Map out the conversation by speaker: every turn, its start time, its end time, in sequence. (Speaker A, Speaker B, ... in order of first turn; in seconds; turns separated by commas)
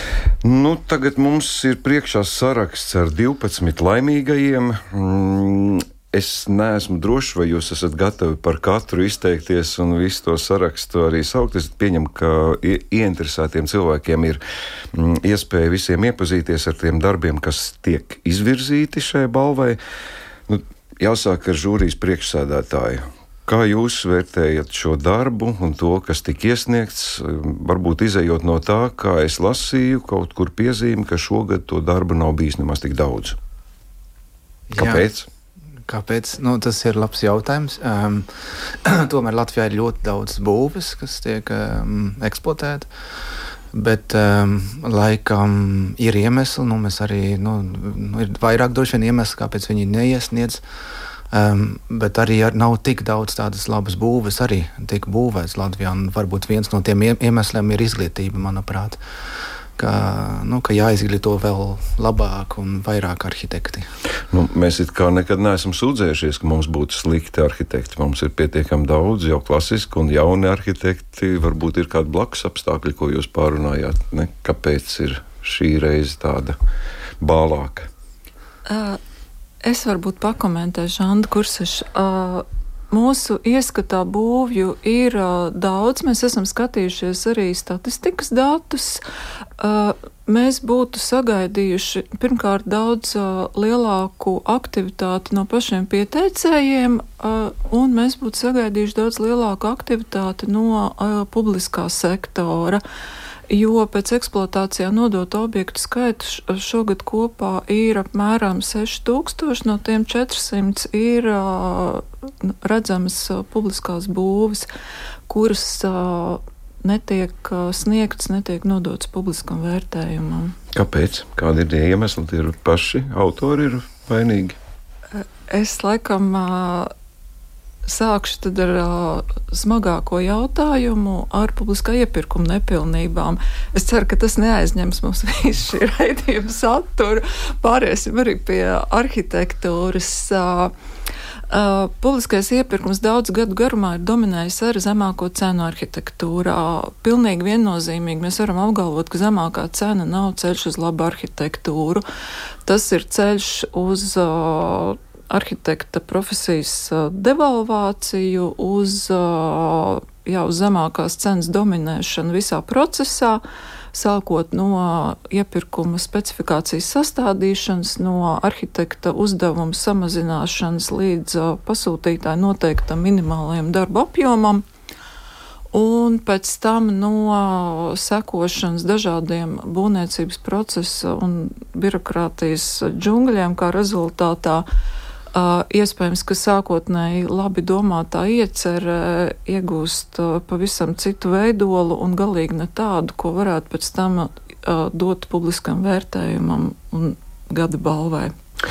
Speaker A: 0.4-14.4, Speaker A: 14.9-19.8, Speaker A: 20.5-33.4, Speaker B: 34.7-35.0, Speaker A: 34.8-35.3, Speaker B: 35.9-42.9, Speaker B: 43.7-50.6, Speaker B: 51.3-59.0, Speaker B: 59.8-63.9, Speaker A: 64.3-76.6, Speaker A: 77.2-77.9, Speaker C: 78.7-79.0, Speaker C: 79.6-89.0, Speaker C: 89.6-102.8, Speaker C: 103.5-114.7, Speaker C: 115.3-120.5, Speaker A: 120.7-124.6, Speaker C: 125.1-126.9, Speaker C: 127.9-140.7, Speaker C: 141.5-152.0, Speaker C: 152.7-163.4, Speaker C: 163.9-174.6, Speaker C: 175.7-184.7, Speaker C: 185.3-198.3